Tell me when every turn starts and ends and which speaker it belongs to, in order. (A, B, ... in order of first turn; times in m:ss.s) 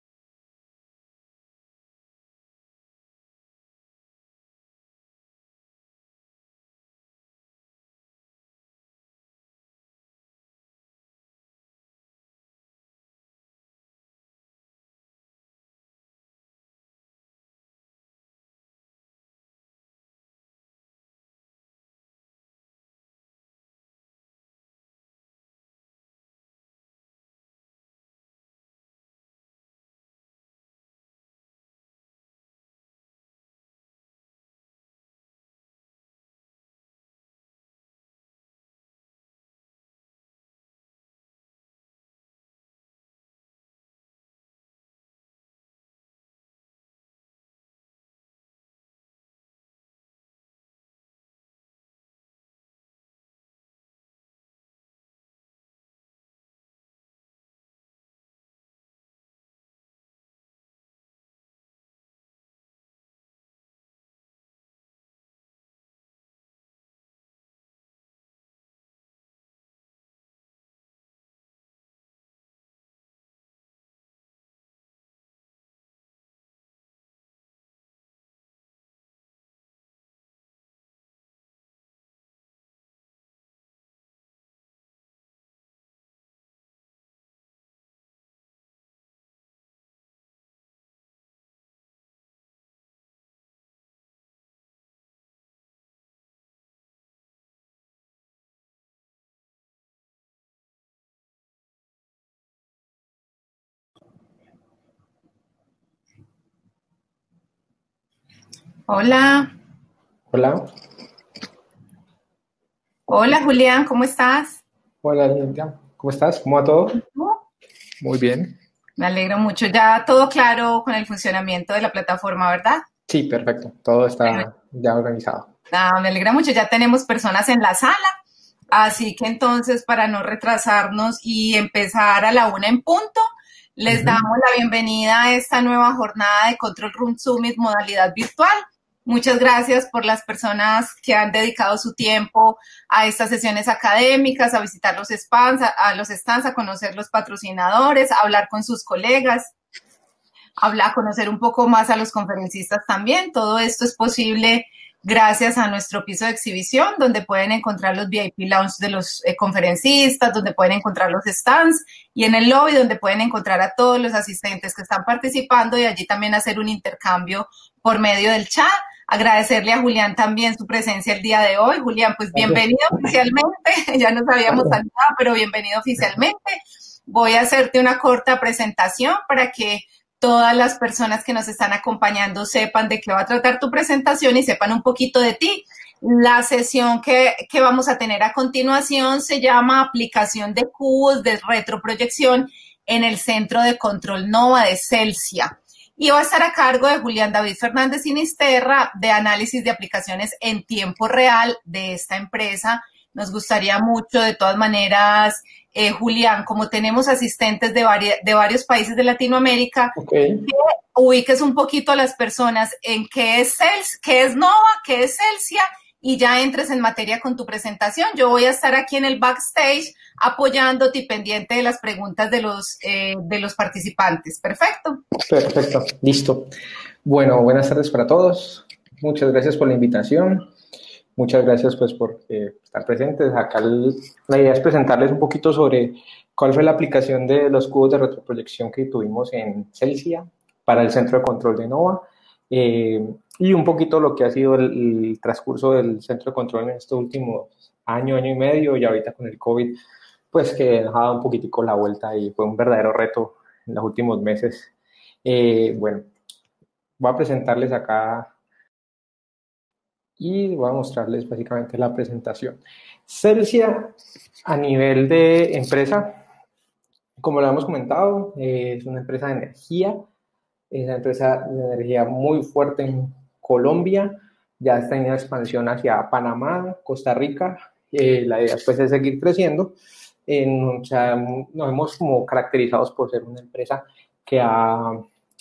1:48.9-1:49.5 A
1:50.3-1:50.6 B
1:53.1-1:54.6 A
1:55.0-1:57.0 B
1:58.0-1:58.6 B
1:59.0-2:02.8 A
2:03.1-2:05.5 B
2:05.7-2:08.2 A
2:08.7-2:29.5 A
2:13.9-2:14.2 B
2:30.6-3:30.0 A
2:52.4-2:52.6 B
3:30.0-3:30.5 B
3:30.5-3:45.0 A
3:45.2-3:46.5 B
3:47.0-3:50.5 B
3:51.2-4:09.8 B
4:10.3-4:14.7 B
4:15.2-4:16.1 B
4:17.0-4:18.3 B
4:20.2-4:23.9 B
4:24.4-4:26.2 B
4:27.2-4:30.0 B
4:30.7-4:39.7 B
4:40.3-4:45.0 B